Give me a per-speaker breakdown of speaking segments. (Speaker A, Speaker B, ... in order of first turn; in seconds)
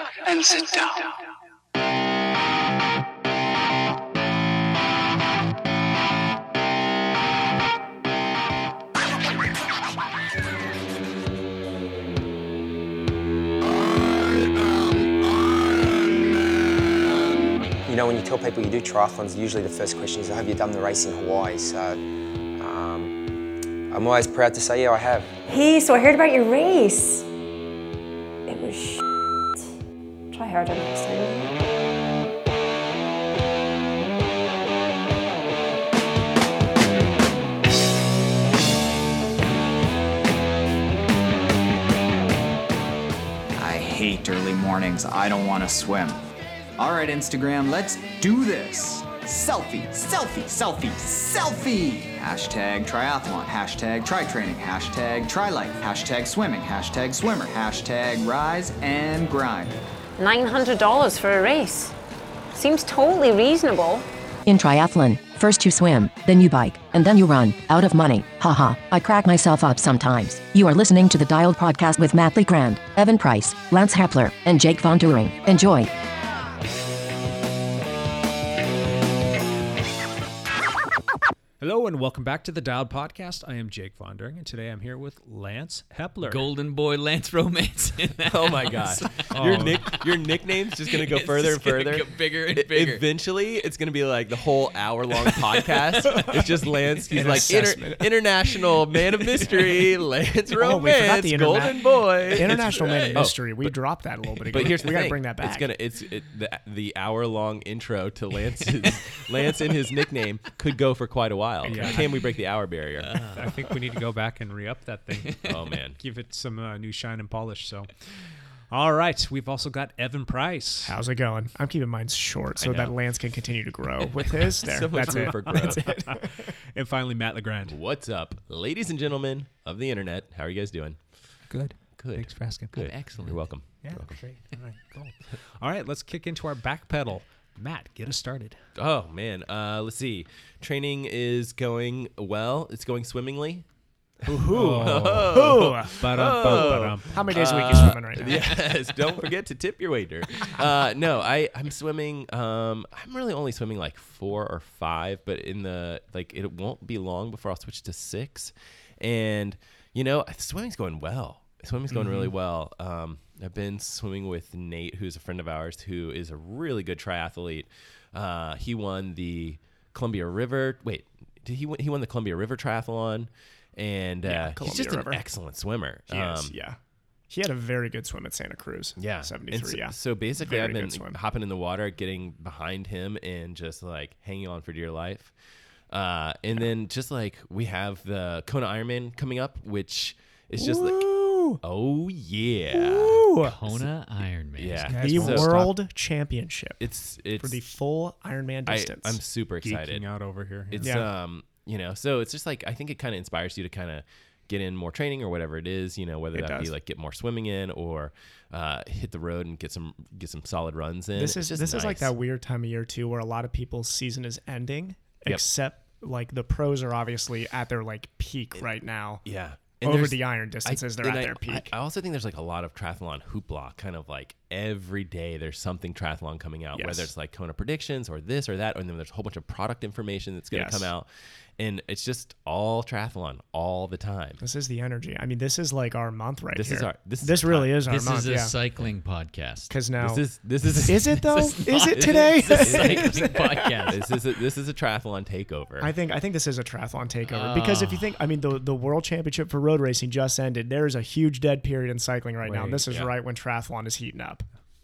Speaker A: 17.9-22.0, 22.6-23.1, 23.9-25.3
Speaker B: 25.4-27.3, 28.5-29.0, 30.3-31.5
Speaker C: 43.6-46.2, 46.8-59.8
Speaker D: 60.2-61.9, 62.5-64.0
Speaker E: 64.5-75.9
Speaker F: 81.6-86.5, 89.3-89.8, 111.6-112.2, 113.3-118.1, 118.7-121.0, 126.1-127.8, 131.5-138.6, 144.2-147.2, 194.9-195.7, 199.6-200.9, 252.4-252.8
Speaker G: 86.2-90.1, 90.8-93.0, 95.3-96.5, 108.8-109.2, 111.8-112.0, 113.0-113.8, 115.2-115.6, 132.7-133.5, 193.4-195.2, 237.9-239.7, 241.2-244.0, 247.3-248.2
Speaker H: 88.2-103.7, 104.4-113.2, 115.5-116.0, 122.5-123.0, 124.0-125.9, 127.6-131.0, 131.9-134.2, 138.8-143.7, 144.2-176.5, 179.0-185.3, 185.9-193.9, 194.6-195.6, 196.8-197.6, 198.7-200.1, 200.7-212.1, 219.2-234.4, 236.5-237.8, 240.0-245.9
Speaker I: 97.1-98.1, 100.5-105.7, 120.8-126.5, 144.5-148.7, 174.2-175.2, 176.1-176.8, 177.3-181.2, 190.6-191.6, 192.7-193.6, 194.9-196.8, 197.4-199.2, 200.8-201.1, 206.3-206.7, 211.1-219.2, 219.8-221.7, 226.7-227.1, 230.5-230.9, 234.4-238.5, 239.7-240.2, 240.8-243.4, 245.8-254.4